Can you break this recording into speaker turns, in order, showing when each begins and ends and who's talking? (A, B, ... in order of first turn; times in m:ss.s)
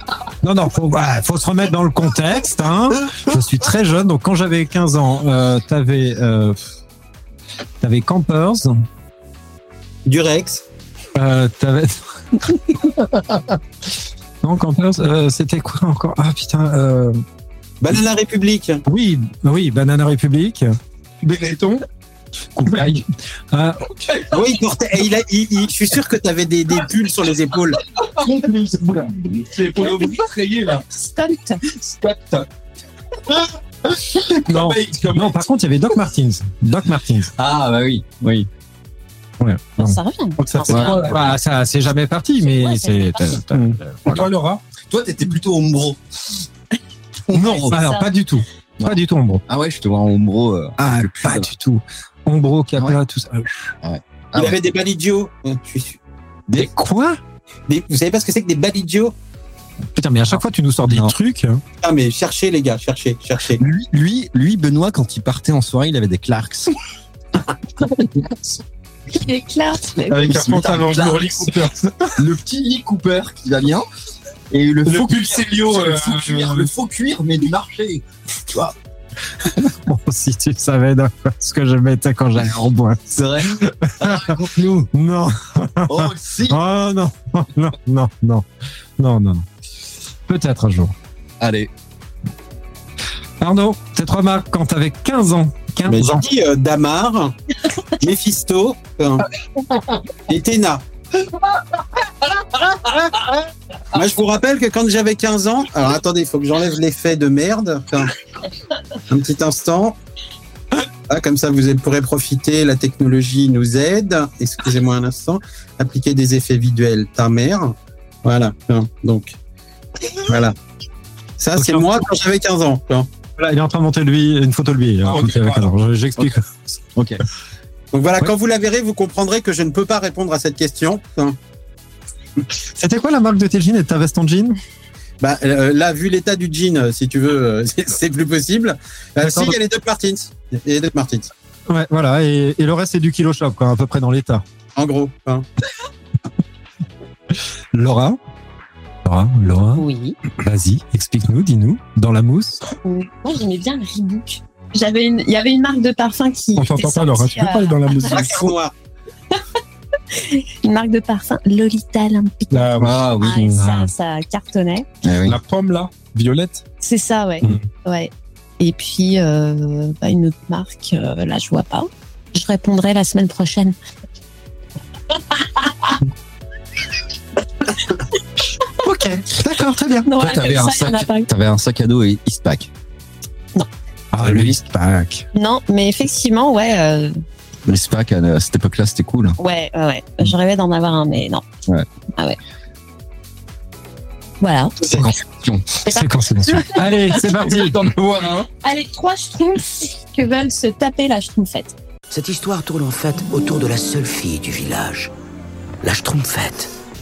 0:00.4-0:06.6 A
0:07.8-0:08.8 A
0:10.0-0:10.6 B
0:11.1-0:13.6 A
0:14.4-0:17.2 A
0:17.8-0:18.8 B
0:18.8-0:20.7 A
0:21.2-0:21.8 C
0:22.6-0:23.8 A
0:24.0-0:24.3 C
0:24.3-0:27.8 B
0:28.2-0:29.2 D
0:29.3-0:30.8 C
0:30.9-0:31.6 E
0:31.8-0:32.5 D
0:34.3-0:35.4 C
0:34.5-0:37.3 A
0:37.4-0:38.5 D
0:39.4-0:40.0 A
0:39.8-0:41.3 E
0:40.4-0:41.2 C
0:40.7-0:41.1 D
0:40.8-0:44.2 A
0:42.4-0:43.4 E
0:43.5-0:44.6 C
0:44.9-0:46.0 D
0:47.3-0:47.8 D
0:47.3-0:49.4 A
0:47.4-0:48.1 E
0:48.8-0:51.5 D
0:50.8-0:53.7 A
0:53.8-0:54.6 D
0:54.4-0:56.0 B
0:56.5-0:57.2 A
0:57.7-0:59.1 B
1:00.0-1:01.6 A
1:00.9-1:01.1 D
1:01.8-1:03.6 B
1:03.6-1:06.7 D
1:08.0-1:08.6 D
1:09.1-1:10.3 E
1:10.1-1:12.1 C
1:10.1-1:11.5 D
1:12.2-1:13.8 D
1:14.5-1:18.7 D
1:14.8-1:16.7 C
1:19.6-1:23.0 A
1:23.1-1:24.9 D
1:23.6-1:24.2 A
1:24.9-1:28.4 A
1:25.8-1:26.6 D
1:29.0-1:29.4 A
1:30.3-1:30.9 A
1:31.4-1:31.7 D
1:33.4-1:36.2 A
1:35.9-1:37.3 B
1:38.0-1:39.3 B
1:40.3-1:40.8 B
1:43.9-1:48.2 B
1:49.1-1:50.0 B
1:51.1-1:59.4 B
2:00.2-2:00.6 B
2:01.4-2:03.1 B
2:01.6-2:02.0 A
2:03.4-2:06.5 A
2:05.0-2:05.7 C
2:06.9-2:07.2 D
2:07.9-2:11.4 B
2:12.7-2:14.6 A
2:15.2-2:21.3 B
2:19.2-2:19.6 A
2:21.7-2:24.4 A
2:24.7-2:25.4 B
2:27.7-2:28.2 A
2:29.0-2:29.8 A
2:29.8-2:30.2 E
2:30.4-2:32.6 A
2:32.8-2:38.2 E
2:36.6-2:38.5 C
2:38.1-2:38.7 B
2:40.1-2:44.8 E
2:42.5-2:43.6 C
2:42.8-2:43.5 D
2:45.0-2:45.4 D
2:45.2-2:46.6 C
2:46.8-2:53.8 E
2:58.8-3:00.1 A
3:00.0-3:01.3 E
3:00.1-3:02.7 D
3:04.1-3:05.2 A
3:04.2-3:04.6 D
3:05.3-3:07.2 E
3:07.6-3:09.4 D
3:09.4-3:11.4 E
3:14.4-3:14.8 E
3:14.8-3:15.1 B
3:14.9-3:15.8 D
3:15.8-3:17.0 E
3:15.8-3:17.8 A
3:17.5-3:18.5 C
3:18.6-3:21.7 E
3:22.1-3:25.1 F
3:25.8-3:26.7 F